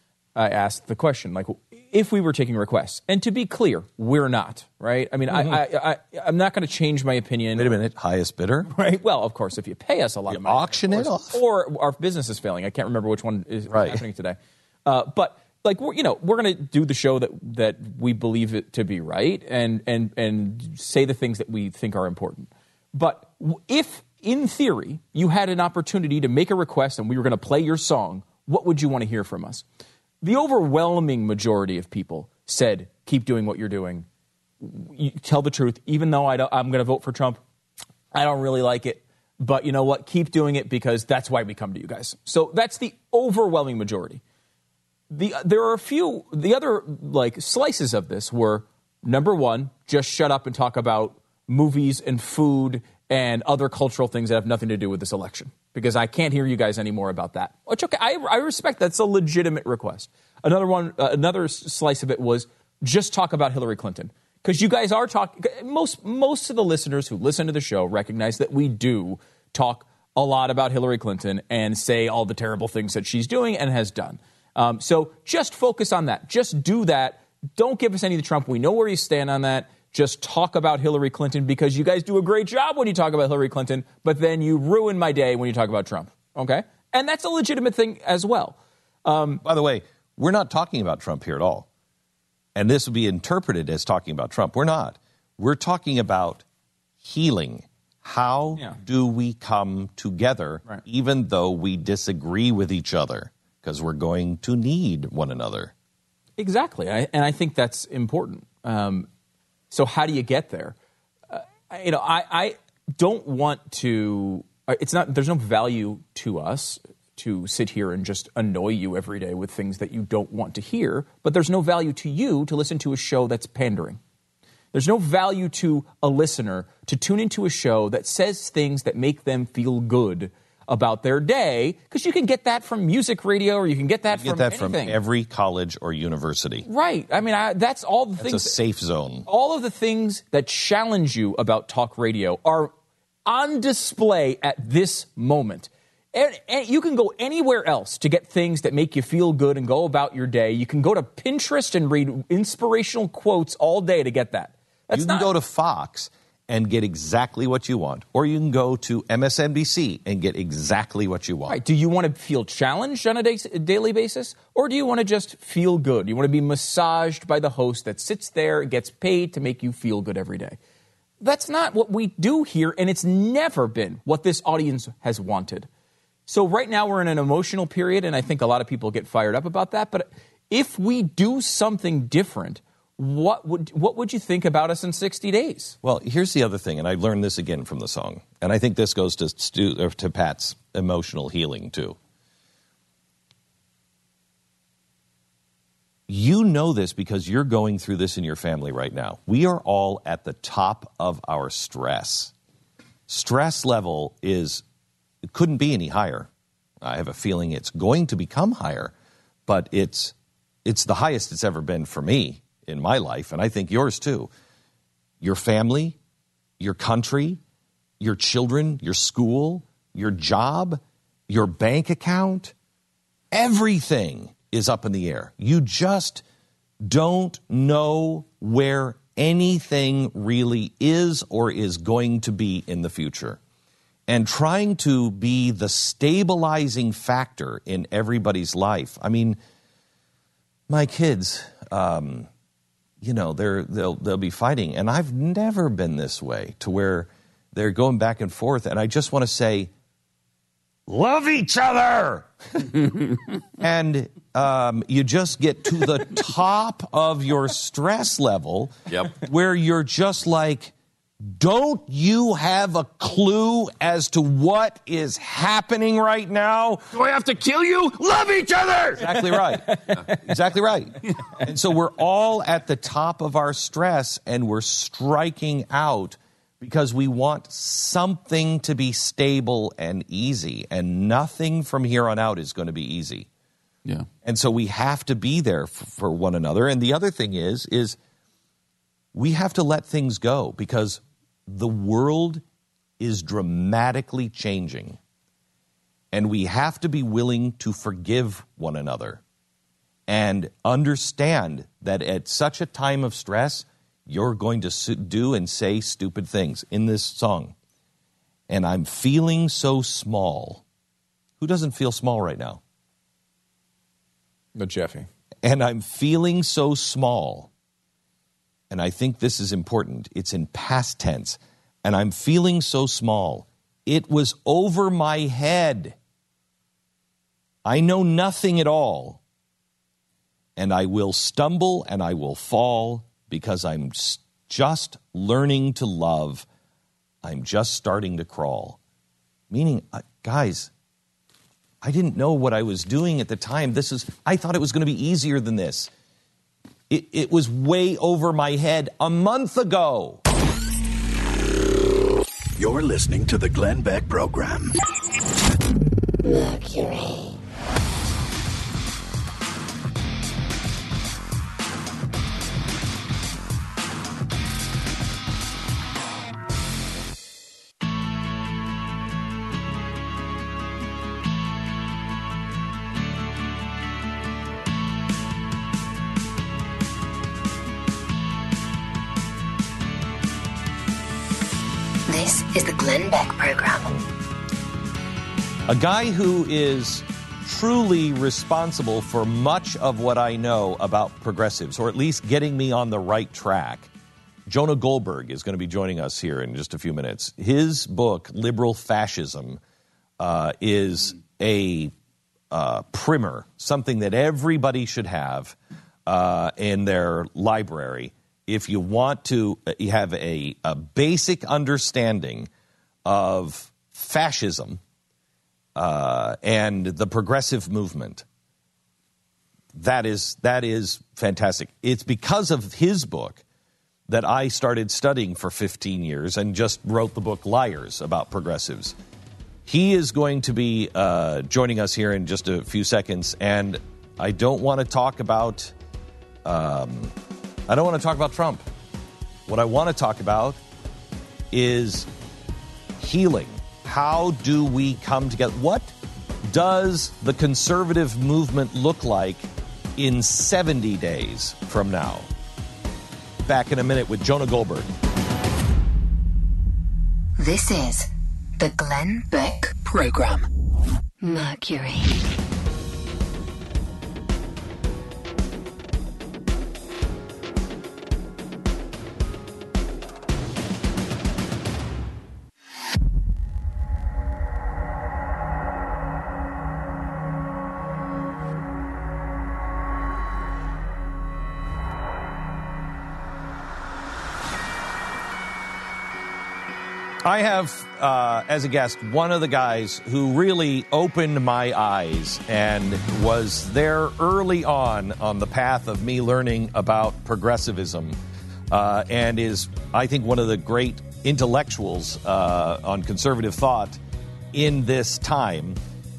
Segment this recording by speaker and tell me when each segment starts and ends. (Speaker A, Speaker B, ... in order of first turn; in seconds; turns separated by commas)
Speaker A: 0.3-7.7, Speaker B: 5.3-5.6, Speaker B: 7.6-8.7, Speaker A: 8.7-29.6, Speaker B: 10.3-11.4, Speaker B: 13.7-14.0, Speaker A: 30.2-34.1, Speaker A: 34.6-37.4, Speaker A: 38.1-44.2, Speaker A: 45.1-89.4, Speaker B: 89.4-91.7, Speaker B: 92.5-96.4, Speaker B: 97.0-105.7, Speaker A: 106.4-109.1, Speaker A: 109.7-110.8, Speaker A: 111.3-124.0, Speaker A: 124.7-135.0, Speaker B: 134.1-136.7, Speaker A: 136.7-138.6, Speaker B: 138.2-139.3, Speaker A: 139.3-142.7, Speaker A: 143.3-155.3, Speaker B: 154.9-161.6, Speaker A: 161.5-170.6, Speaker A: 171.2-175.7, Speaker A: 176.3-185.8, Speaker B: 185.8-192.0, Speaker B: 196.1-202.3, Speaker B: 203.1-204.6, Speaker B: 205.3-206.3, Speaker B: 206.8-208.9, Speaker B: 209.5-210.1, Speaker B: 210.7-214.3, Speaker B: 215.2-216.0, Speaker B: 216.6-217.4, Speaker B: 218.0-222.5, Speaker B: 223.3-226.2, Speaker B: 226.8-233.4, Speaker B: 234.1-239.4, Speaker B: 240.7-242.3, Speaker B: 243.0-249.7, Speaker B: 250.9-252.8, Speaker B: 253.6-266.9, Speaker C: 258.9-259.2, Speaker C: 266.9-269.0, Speaker B: 269.0-283.3, Speaker A: 269.7-270.0, Speaker B: 284.2-288.0, Speaker B: 289.1-292.4, Speaker B: 293.0-295.0, Speaker B: 296.1-299.2, Speaker B: 300.1-307.6, Speaker B: 308.5-310.6, Speaker B: 311.4-312.6, Speaker A: 314.6-315.1, Speaker B: 315.4-317.5, Speaker B: 318.7-325.9, Speaker B: 327.6-329.2, Speaker B: 330.6-336.5, Speaker B: 337.2-338.8, Speaker B: 339.5-340.7, Speaker B: 341.8-345.9, Speaker B: 346.9-350.2, Speaker D: 352.6-354.7, Speaker E: 356.2-357.4, Speaker E: 382.1-384.0, Speaker B: 385.7-393.9, Speaker B: 394.5-399.6, Speaker B: 400.2-401.9, Speaker B: 402.5-405.6, Speaker B: 406.1-412.5, Speaker B: 413.1-414.8, Speaker B: 415.8-418.2, Speaker B: 419.7-423.4, Speaker B: 424.1-429.0, Speaker B: 429.7-435.7, Speaker B: 436.4-437.1, Speaker B: 437.7-438.6, Speaker B: 439.5-440.6, Speaker B: 441.5-442.1, Speaker B: 443.0-445.9, Speaker B: 446.4-452.3, Speaker B: 453.5-454.9, Speaker E: 457.4-459.8, Speaker D: 459.9-460.5, Speaker E: 461.2-462.2, Speaker B: 487.2-498.2, Speaker B: 498.7-504.0, Speaker B: 504.5-505.8